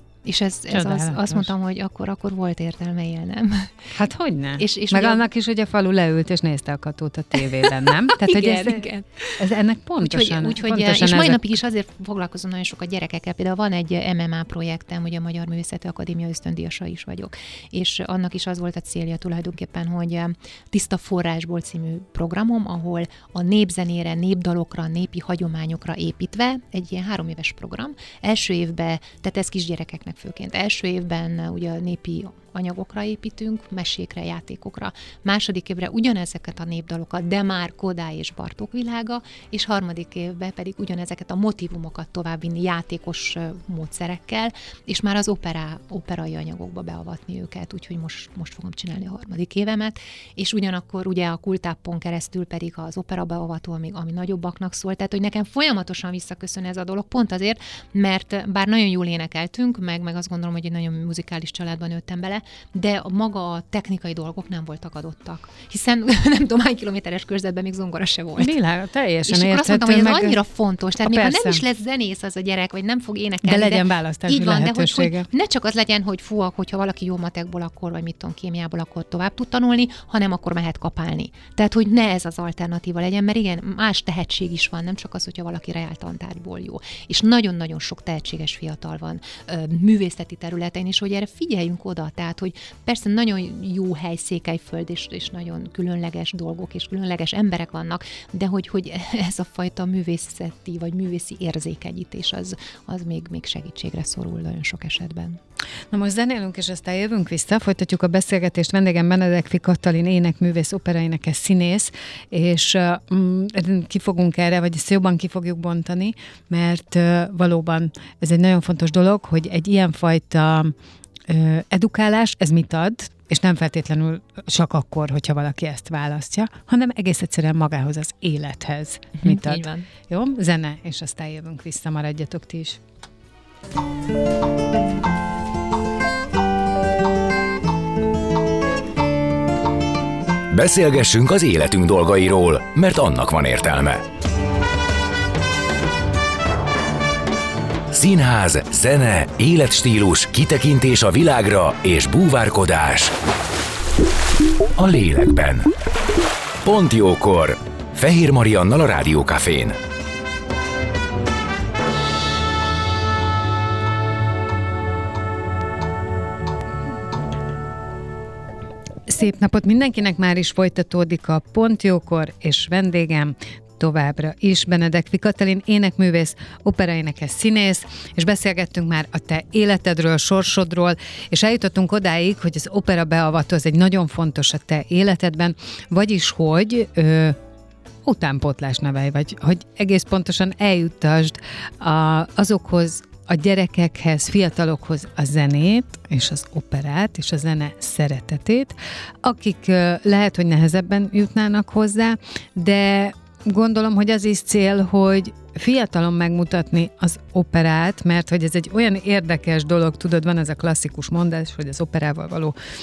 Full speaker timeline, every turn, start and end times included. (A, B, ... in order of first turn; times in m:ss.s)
0:00.2-0:03.9 A
0:00.7-0:01.5 B
0:03.9-0:08.9 B
0:04.6-0:05.2 A
0:08.0-0:09.1 A
0:09.4-0:11.6 B
0:10.0-1:08.5 A
1:08.4-1:10.4 B
1:09.2-1:45.4 A
1:11.0-1:11.6 B
1:13.4-1:15.3 B
1:45.9-2:00.7 B
2:01.3-2:12.8 B
2:09.2-2:09.9 A
2:20.5-2:24.0 C
2:27.9-2:33.1 C
2:34.8-2:35.7 C
2:36.6-2:39.8 C
2:49.0-3:07.4 B
3:08.0-3:32.5 B